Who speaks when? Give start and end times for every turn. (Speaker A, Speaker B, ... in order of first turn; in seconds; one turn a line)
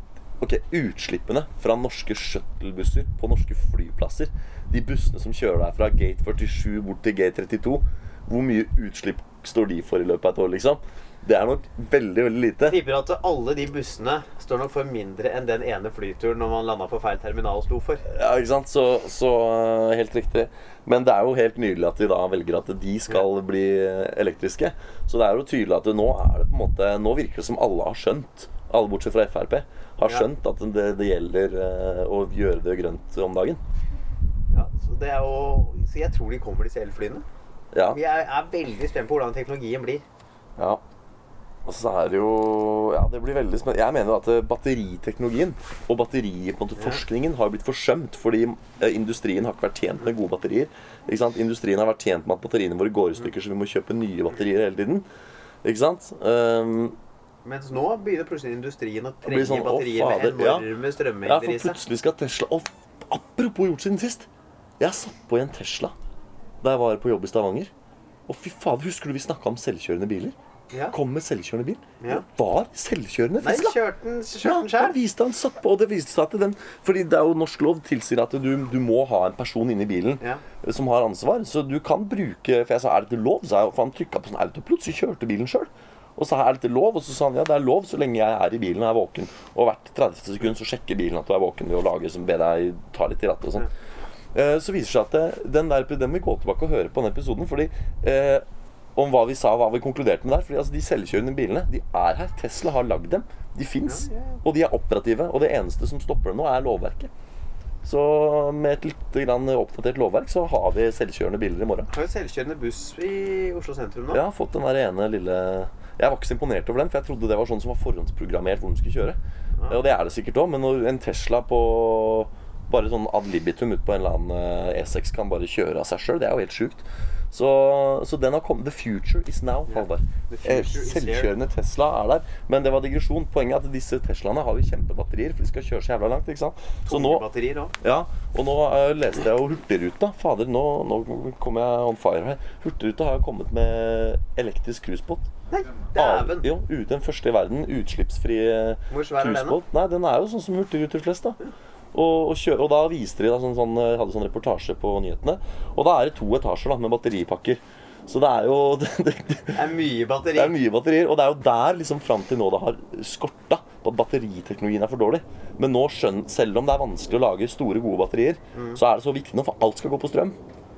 Speaker A: 0.4-12.8
Speaker B: 12.6-18.0
Speaker A: 18.1-33.6
Speaker B: 34.5-37.2
Speaker A: 37.7-38.0
Speaker B: 37.9-40.0
Speaker A: 41.6-55.0
Speaker A: 55.6-57.0
Speaker B: 57.4-61.8
Speaker A: 59.2-60.7
Speaker A: 61.2-64.3
Speaker A: 64.8-65.9
Speaker A: 66.6-67.7
Speaker A: 68.3-70.3
Speaker A: 70.9-73.8
Speaker B: 72.0-72.2
Speaker B: 73.4-75.0
Speaker A: 74.4-93.7
Speaker A: 94.3-98.4
Speaker A: 99.0-107.1
Speaker B: 103.8-104.4
Speaker A: 107.8-111.9
Speaker B: 111.9-114.2
Speaker A: 114.1-137.2
Speaker B: 129.7-131.3
Speaker B: 136.9-137.7
Speaker A: 137.8-145.3
Speaker B: 145.5-146.5
Speaker A: 145.9-151.4
Speaker B: 148.9-149.6
Speaker A: 151.9-159.7
Speaker B: 159.5-160.6
Speaker A: 160.3-170.4
Speaker B: 168.5-168.8